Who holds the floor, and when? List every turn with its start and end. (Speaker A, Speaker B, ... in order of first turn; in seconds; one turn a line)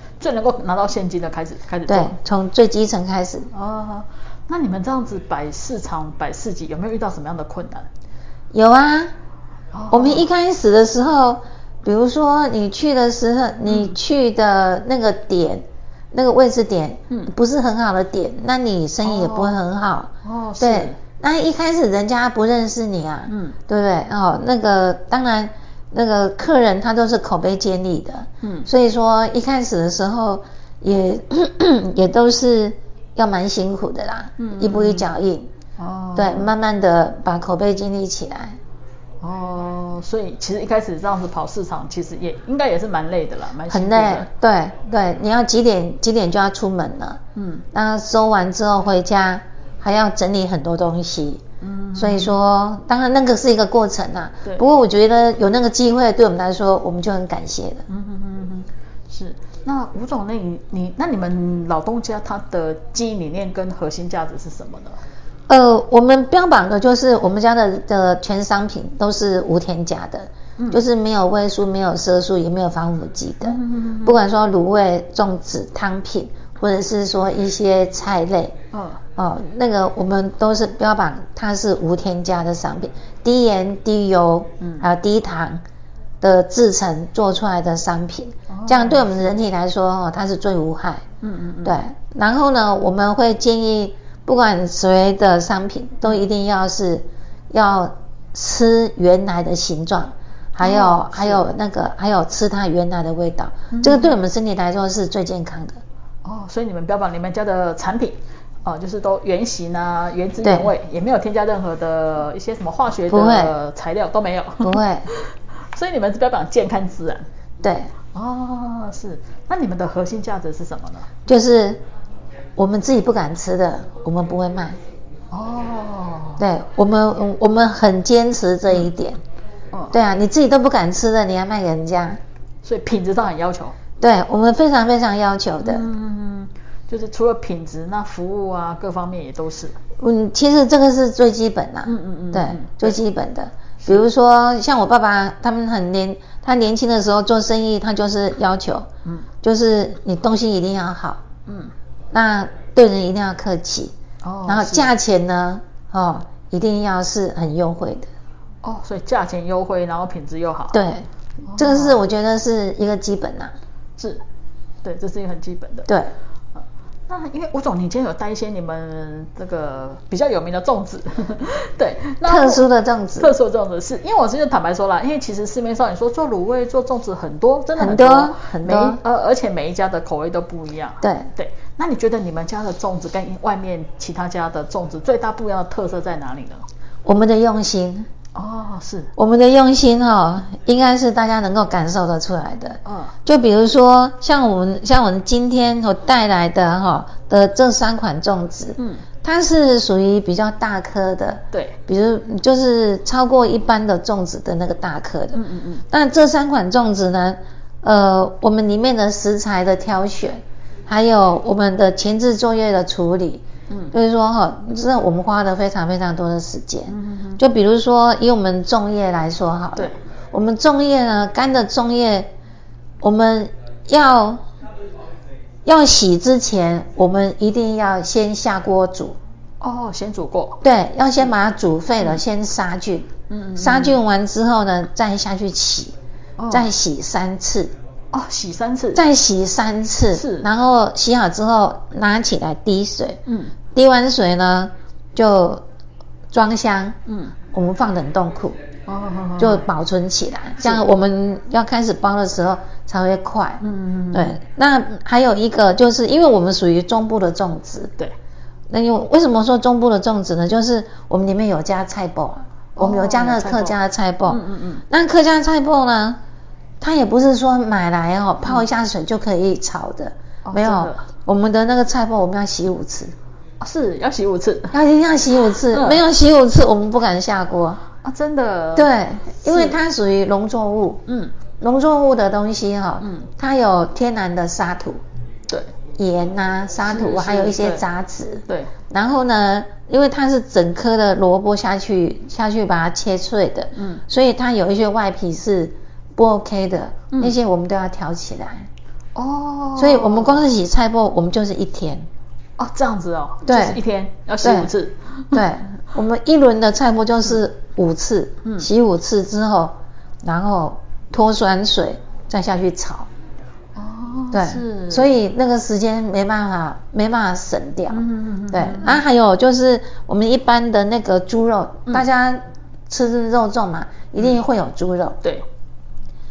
Speaker A: 0.2-2.1
Speaker B: 1.9-3.5
Speaker A: 3.5-7.9
Speaker B: 8.5-9.1
Speaker A: 9.7-10.3
Speaker B: 9.9-35.5
Speaker A: 13.7-14.0
Speaker A: 19.0-19.6
Speaker A: 20.2-21.0
Speaker A: 23.3-23.6
Speaker A: 28.4-28.7
Speaker A: 34.4-35.1
Speaker A: 35.8-36.5
Speaker B: 36.1-38.6
Speaker A: 39.2-44.3
Speaker B: 43.7-47.2
Speaker A: 47.4-47.6
Speaker B: 47.7-51.4
Speaker A: 51.6-52.4
Speaker B: 52.0-57.8
Speaker A: 57.9-65.0
Speaker B: 65.5-78.5
Speaker A: 70.6-70.8
Speaker A: 73.4-74.2
Speaker A: 78.7-79.0
Speaker B: 79.2-85.6
Speaker A: 84.6-84.9
Speaker B: 86.2-91.0
Speaker A: 88.5-89.2
Speaker A: 91.2-91.8
Speaker B: 91.6-105.8
Speaker A: 100.6-101.5
Speaker A: 103.7-104.2
Speaker A: 106.2-117.2
Speaker B: 110.4-110.7
Speaker B: 113.1-113.5
Speaker B: 114.6-115.1
Speaker B: 117.6-117.9
Speaker A: 118.1-121.1
Speaker B: 121.2-121.8
Speaker B: 122.6-124.8
Speaker A: 125.3-126.4
Speaker B: 126.4-129.2
Speaker A: 129.7-130.0
Speaker B: 129.9-132.2
Speaker A: 132.6-133.8
Speaker B: 134.0-135.9
Speaker A: 135.6-139.8
Speaker B: 140.0-148.9
Speaker A: 141.8-143.0
Speaker B: 149.4-151.2
Speaker A: 151.5-151.7
Speaker B: 152.1-153.9
Speaker A: 154.2-154.9
Speaker B: 154.4-158.1
Speaker A: 158.6-160.8
Speaker B: 160.7-163.5
Speaker A: 161.4-162.0
Speaker A: 164.0-164.2
Speaker A: 164.8-165.9
Speaker B: 165.9-166.1
Speaker A: 167.1-172.7
Speaker B: 172.2-173.3
Speaker A: 173.2-186.6
Speaker B: 177.7-179.0
Speaker B: 181.0-181.3
Speaker B: 187.0-188.1
Speaker A: 188.3-189.1
Speaker B: 189.2-222.3
Speaker A: 192.8-193.1
Speaker A: 198.8-199.0
Speaker A: 201.5-201.8
Speaker A: 205.3-205.8
Speaker A: 213.7-213.9
Speaker A: 216.9-217.4
Speaker B: 223.0-224.4
Speaker B: 225.6-229.2
Speaker A: 229.6-230.6
Speaker B: 230.6-235.9
Speaker A: 233.3-234.0
Speaker A: 236.4-236.7
Speaker B: 236.5-237.7
Speaker A: 238.1-239.1
Speaker B: 238.9-243.2
Speaker A: 240.1-240.5
Speaker A: 243.2-243.5
Speaker B: 243.7-245.6
Speaker B: 246.3-247.0
Speaker A: 247.1-247.3
Speaker B: 247.5-248.6
Speaker A: 248.8-249.7
Speaker B: 249.4-257.9
Speaker A: 250.6-250.8
Speaker A: 253.6-254.4
Speaker B: 258.7-266.2
Speaker A: 262.8-264.8
Speaker B: 266.8-273.1
Speaker A: 270.4-271.1
Speaker A: 273.6-274.8
Speaker B: 274.7-277.8
Speaker A: 275.6-276.0
Speaker A: 278.0-278.9
Speaker B: 278.7-281.0
Speaker A: 279.4-279.8
Speaker A: 281.1-281.3
Speaker B: 281.6-285.0
Speaker A: 283.0-283.3
Speaker B: 286.0-298.6
Speaker A: 286.9-287.8
Speaker A: 293.8-294.0
Speaker A: 297.1-297.4
Speaker A: 299.1-300.4
Speaker B: 299.8-302.1
Speaker A: 302.6-305.4
Speaker B: 303.4-303.8
Speaker B: 304.4-304.7
Speaker B: 305.3-313.1
Speaker A: 308.4-308.7
Speaker A: 313.7-315.1
Speaker B: 314.3-325.2
Speaker A: 317.9-319.0